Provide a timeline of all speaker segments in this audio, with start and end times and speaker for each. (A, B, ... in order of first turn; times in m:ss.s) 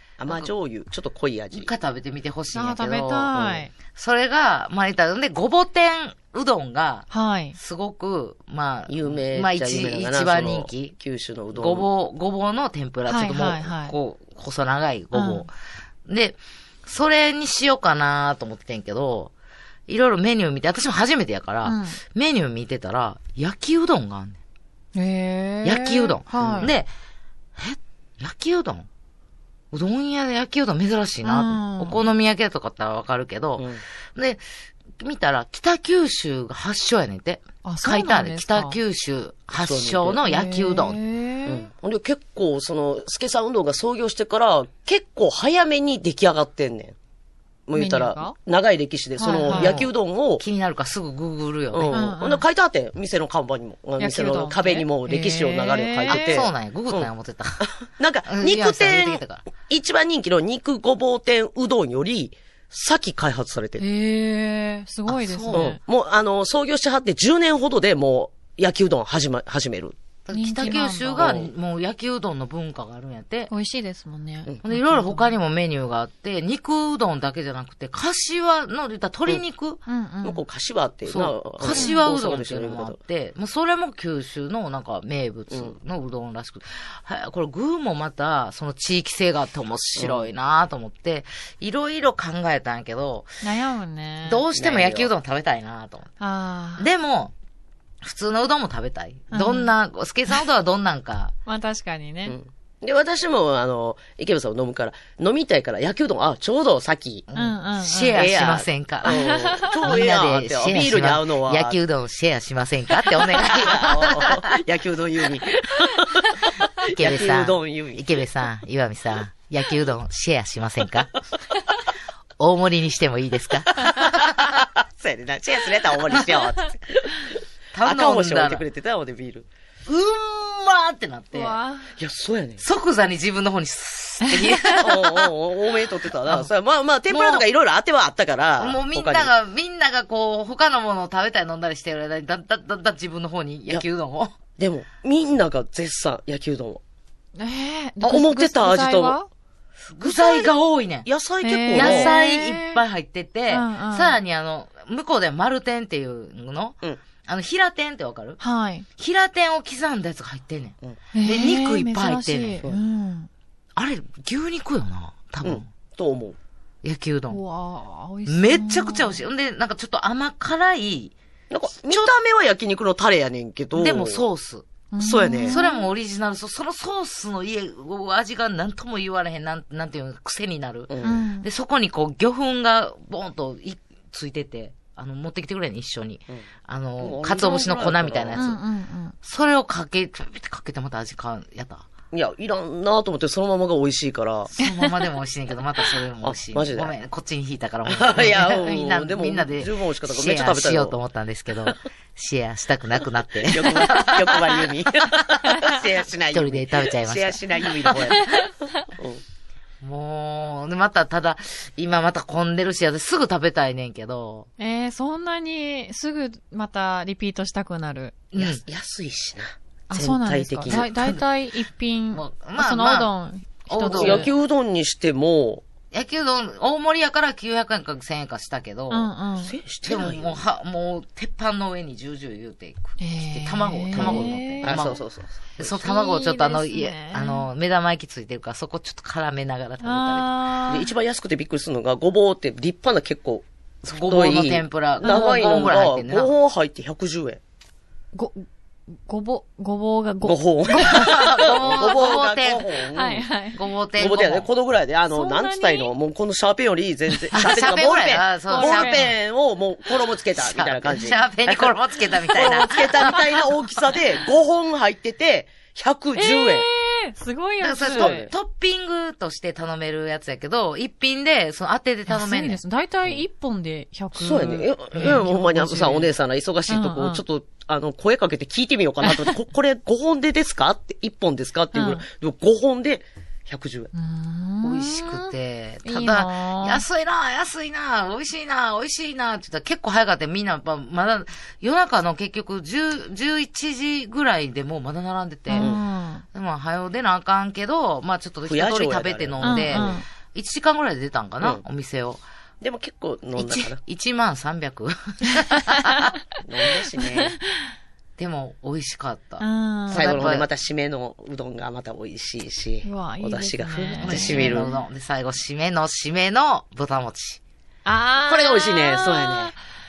0:00.2-0:01.7 A
0:01.5-0:03.3 B
0:02.5-0:03.7 C
0:03.3-0:03.6 A
0:03.9-0:10.9 B
0:07.1-0:07.6 C
0:08.9-0:11.9 A
0:11.5-0:15.5 B
0:13.1-0:13.9 C
0:15.1-0:15.4 C
0:16.0-0:19.3 B
0:19.9-0:24.4 B
0:21.6-0:22.0 C
0:24.9-0:26.7 C
0:25.6-0:26.9 B
0:26.4-0:26.7 A
0:27.6-0:28.9 B
0:29.7-0:34.4 B
0:31.2-0:32.0 C
0:35.0-0:41.0 B
0:37.6-0:38.8 C
0:39.6-0:40.2 A
0:40.2-0:41.6 C
0:41.4-0:46.9 A
0:47.7-0:50.4 A
0:47.8-0:48.4 C
0:49.2-0:49.9 C
0:49.5-0:52.0 B
0:51.7-0:57.1 A
0:51.9-0:52.4 C
0:54.0-0:56.4 C
0:56.1-0:57.7 B
0:57.6-1:03.8 A
0:58.3-0:59.4 B
1:03.8-1:05.8 C
1:05.1-1:05.8 B
1:05.5-1:10.0 A
1:10.2-1:13.5 B
1:10.3-1:11.3 C
1:10.6-1:11.5 A
1:13.5-1:15.3 C
1:14.6-1:19.8 B
1:19.8-1:20.4 C
1:20.2-1:23.0 A
1:21.1-1:33.4 B
1:21.7-1:22.0 C
1:25.5-1:25.8 A
1:30.0-1:30.3 A
1:33.4-1:34.4 C
1:34.2-1:36.1 B
1:34.5-1:35.1 A
1:36.2-1:36.9 C
1:36.8-1:37.3 B
1:38.0-1:41.3 B
1:39.3-1:39.7 C
1:41.4-1:42.4 C
1:42.3-1:47.3 A
1:47.3-1:54.5 B
1:47.3-1:48.3 C
1:48.1-1:51.8 A
1:49.0-1:49.7 C
1:53.4-1:58.2 A
1:56.9-2:01.1 B
2:02.4-2:04.3 B
2:03.8-2:09.5 A
2:07.7-2:08.6 B
2:09.8-2:11.6 B
2:11.3-2:11.9 C
2:12.0-2:12.6 A
2:12.6-2:15.3 B
2:14.2-2:14.8 C
2:14.7-2:19.3 A
2:16.2-2:16.5 B
2:17.1-2:17.4 B
2:18.6-2:24.4 B
2:24.6-2:26.8 A
2:27.4-2:29.3 C
2:28.0-2:29.2 A
2:29.9-2:31.1 B
2:30.0-2:30.5 A
2:31.0-2:32.1 A
2:31.4-2:32.8 C
2:31.7-2:38.4 B
2:33.5-2:34.2 C
2:38.4-2:38.8 C
2:39.0-2:42.6 B
2:41.1-2:43.3 C
2:43.8-2:45.6 B
2:45.4-2:46.4 A
2:46.8-2:47.4 B
2:47.3-2:49.2 C
2:48.2-2:51.1 B
2:51.5-2:54.2 A
2:51.8-2:52.1 B
2:53.7-2:54.7 B
2:54.9-2:55.9 C
2:55.0-2:55.6 A
2:55.4-3:08.6 B
3:00.9-3:01.2 A
3:01.0-3:01.5 C
3:07.0-3:08.4 A
3:08.3-3:09.1 C
3:09.2-3:11.9 B
3:12.1-3:14.5 A
3:14.5-3:24.7 B
3:16.2-3:16.9 A
3:17.9-3:21.0 A
3:23.4-3:29.2 A
3:26.3-3:28.2 B
3:29.8-3:34.5 B
3:34.6-3:38.2 C
3:38.3-3:38.6 B
3:38.4-3:40.9 A
3:39.9-3:44.3 C
3:40.7-3:41.2 B
3:42.1-3:43.1 B
3:43.7-3:44.3 B
3:43.9-3:45.6 A
3:45.9-3:49.1 B
3:48.9-3:49.5 C
3:49.4-3:50.4 A
3:49.8-3:55.0 B
3:53.0-3:54.8 C
3:54.0-3:55.8 A
3:55.6-4:00.3 B
3:55.8-3:57.4 C
3:59.8-4:00.9 C
4:00.7-4:07.4 A
4:03.8-4:06.3 B
4:05.0-4:05.7 C
4:08.1-4:08.4 C
4:09.0-4:12.2 C
4:10.2-4:13.2 A
4:10.8-4:12.7 B
4:12.9-4:13.6 C
4:13.5-4:14.5 B
4:14.0-4:26.7 A
4:15.1-4:15.9 C
4:17.3-4:19.1 B
4:18.5-4:19.1 C
4:20.4-4:23.4 B
4:26.2-4:28.2 C
4:27.6-4:32.6 B
4:28.0-4:28.3 A
4:32.1-4:36.1 C
4:34.1-4:43.9 A
4:36.7-4:37.2 C
4:39.1-4:39.3 C
4:41.7-4:42.0 C
4:43.9-4:45.3 C
4:44.6-4:55.8 B
4:45.8-4:46.8 C
4:55.5-4:56.2 C
4:56.3-5:02.2 B
4:58.4-5:00.0 A
4:59.4-5:00.0 C
5:02.6-5:03.8 A
5:03.4-5:06.1 B
5:05.6-5:06.1 C
5:06.4-5:07.3 A
5:08.2-5:10.5 B
5:09.4-5:10.2 C
5:09.9-5:14.7 A
5:12.8-5:14.7 C
5:14.0-5:17.4 B
5:17.8-5:19.6 C
5:18.2-5:19.5 A